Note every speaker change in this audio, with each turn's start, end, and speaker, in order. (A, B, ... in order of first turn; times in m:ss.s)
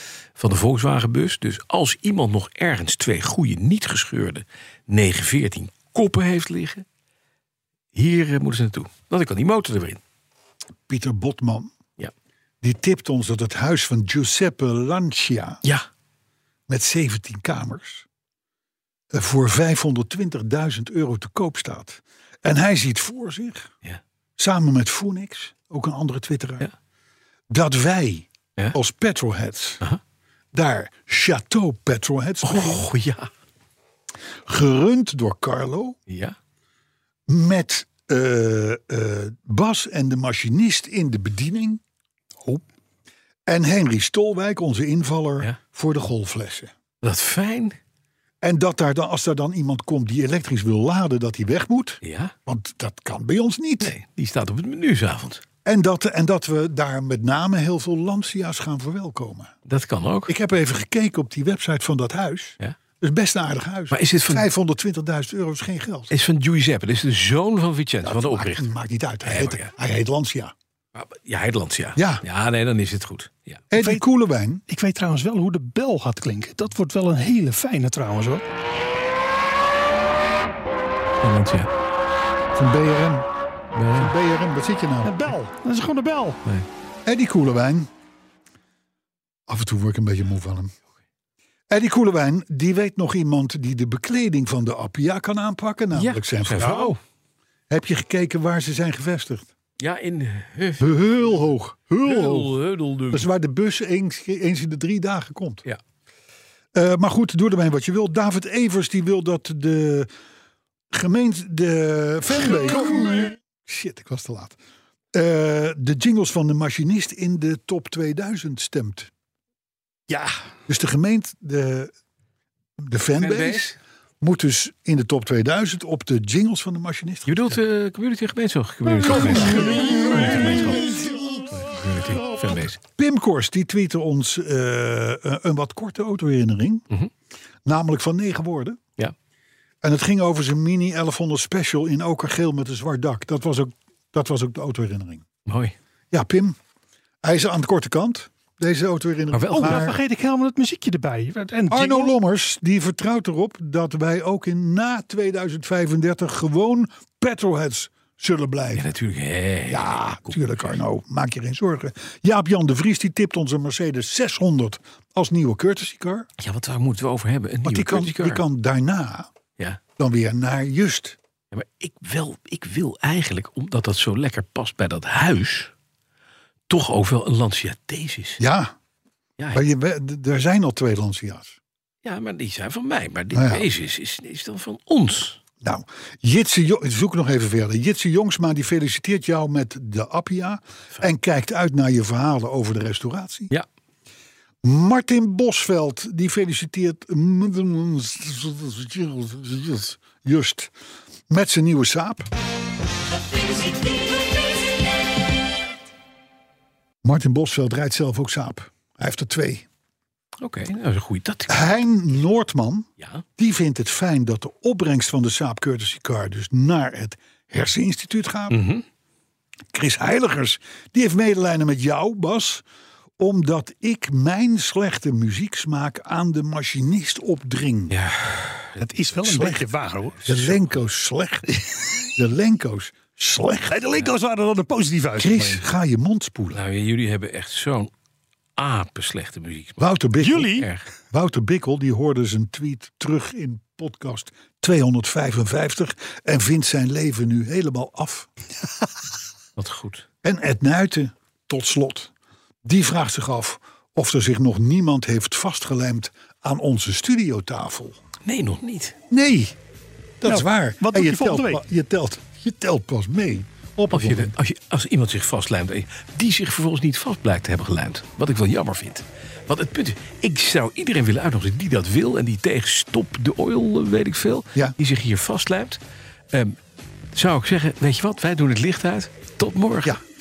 0:00.4-0:06.8 A
0:07.9-0:10.0 A
0:10.9-0:11.7 B
0:12.6-0:15.6 B
0:16.7-0:18.0 B
0:19.1-0:23.7 B
0:24.4-0:26.7 B
0:27.5-0:29.8 B
0:30.5-0:32.8 B
0:32.4-0:33.3 A
0:34.4-0:36.0 B
0:36.1-0:36.4 A
0:37.3-0:41.8 B
0:42.4-0:42.7 B
0:43.4-0:46.7 B
0:47.0-0:47.8 A
0:48.4-0:53.9 B
0:52.0-0:52.3 A
0:53.8-0:55.4 A
0:55.6-0:59.5 B
0:59.6-1:00.3 A
1:00.3-1:06.1 B
1:03.9-1:04.5 A
1:06.1-1:08.7 A
1:08.0-1:10.5 B
1:09.2-1:09.7 A
1:10.9-1:13.6 A
1:12.0-1:12.2 B
1:13.7-1:14.6 B
1:13.7-1:14.0 C
1:14.7-1:18.4 C
1:21.2-1:21.7 A
1:22.5-1:23.2 B
1:23.7-1:24.1 A
1:23.9-1:25.3 B
1:25.0-1:26.4 C
1:27.0-1:27.9 B
1:29.5-1:30.7 B
1:31.7-1:37.0 B
1:35.9-1:37.0 A
1:37.7-1:39.5 B
1:39.8-1:41.4 A
1:40.8-1:42.6 B
1:42.0-1:43.3 A
1:43.1-1:45.6 B
1:46.7-1:50.1 B
1:50.9-1:54.6 B
1:55.1-1:59.1 B
2:00.1-2:00.4 C
2:00.7-2:01.9 B
2:02.8-2:07.6 B
2:03.2-2:03.8 A
2:07.2-2:12.8 A
2:09.0-2:10.9 B
2:09.0-2:10.7 C
2:13.0-2:16.9 B
2:17.6-2:18.8 B
2:19.8-2:25.2 B
2:25.4-2:25.8 A
2:26.1-2:26.6 B
2:27.2-2:30.0 B
2:29.3-2:29.9 A
2:29.5-2:32.1 C
2:31.7-2:38.9 B
2:38.7-2:40.8 A
2:39.7-2:46.3 B
2:46.4-2:48.4 A
2:47.6-2:49.3 B
2:50.0-2:51.2 B
2:51.5-2:55.7 A
2:56.7-2:58.4 A
2:58.4-2:58.7 B
2:59.4-2:59.6 A
2:59.5-3:01.6 B
3:02.0-3:05.4 A
3:03.3-3:03.7 B
3:05.6-3:13.5 B
3:14.6-3:20.7 B
3:21.3-3:22.3 B
3:27.0-3:29.6 B
3:30.4-3:32.2 A
3:31.5-3:38.6 B
3:33.0-3:33.2 A
3:38.5-3:38.8 A
3:39.7-3:42.6 B
3:43.2-3:48.0 B
3:47.9-3:48.8 A
3:48.8-3:50.6 C
3:49.1-3:49.7 B
3:50.2-3:51.5 B
3:52.2-3:53.8 B
3:53.7-3:55.6 C
3:55.2-3:56.6 B
3:56.5-3:57.9 A
3:58.6-3:59.8 A
3:59.8-4:08.3 B
4:00.2-4:00.7 C
4:00.5-4:00.9 A
4:09.6-4:10.0 A
4:10.2-4:12.1 B
4:12.6-4:18.0 B
4:18.2-4:19.0 A
4:19.1-4:19.6 B
4:20.2-4:24.3 B
4:20.2-4:21.6 C
4:23.9-4:35.8 A
4:37.1-4:40.0 A